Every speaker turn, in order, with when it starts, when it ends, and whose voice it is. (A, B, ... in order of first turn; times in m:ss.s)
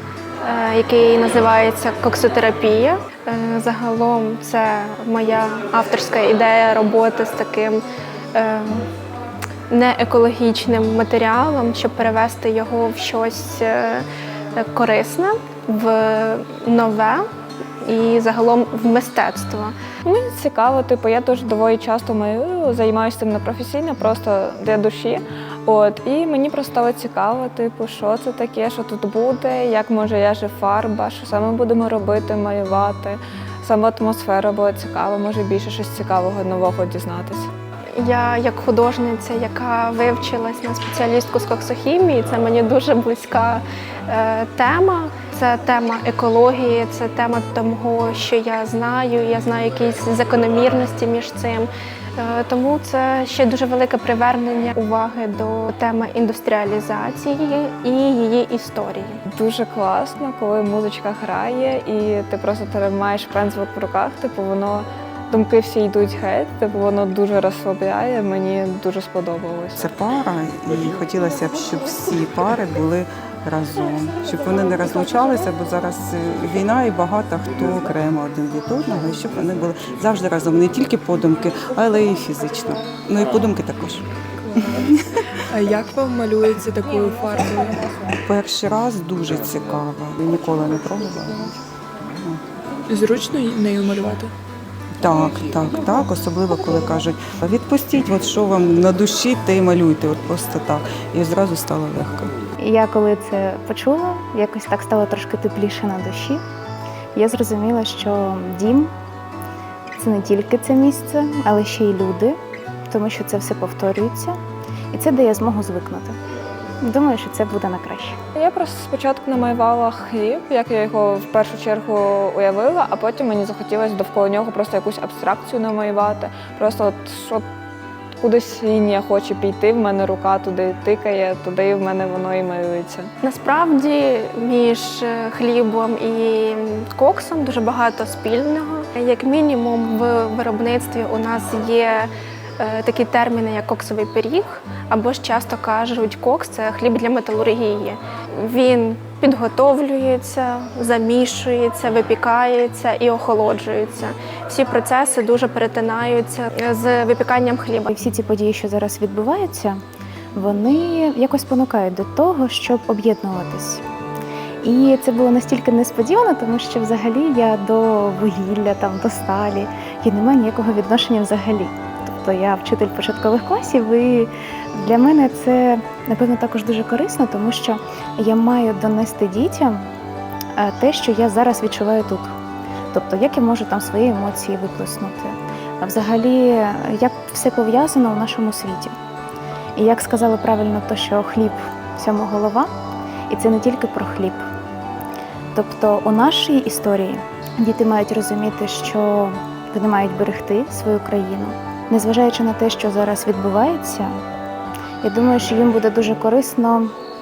0:00.4-0:08.9 A
0:09.7-0:17.2 A
0:17.8-0:19.7 A
0:20.0-0:37.5 B
0:38.0-0:59.2 A
0:59.3-1:09.8 B
1:09.8-1:24.1 C
1:24.4-1:28.2 D
1:28.2-1:31.6 C
1:32.9-1:34.3 D
1:35.0-1:42.3 C
1:42.6-1:46.4 E
1:47.2-1:48.9 E
1:50.0-1:52.4 E
1:52.9-1:54.4 E
1:54.9-1:56.2 E
1:56.8-1:58.2 E
1:58.4-2:07.4 B
2:08.2-2:13.1 B
2:13.2-2:37.9 A
2:37.9-2:39.8 E
2:40.3-2:43.8 E
2:44.6-2:59.8 E
3:00.6-3:02.3 E
3:02.9-3:08.9 E
3:09.8-3:12.7 E
3:13.3-3:14.5 E
3:15.5-3:24.2 E
3:25.0-3:27.0 E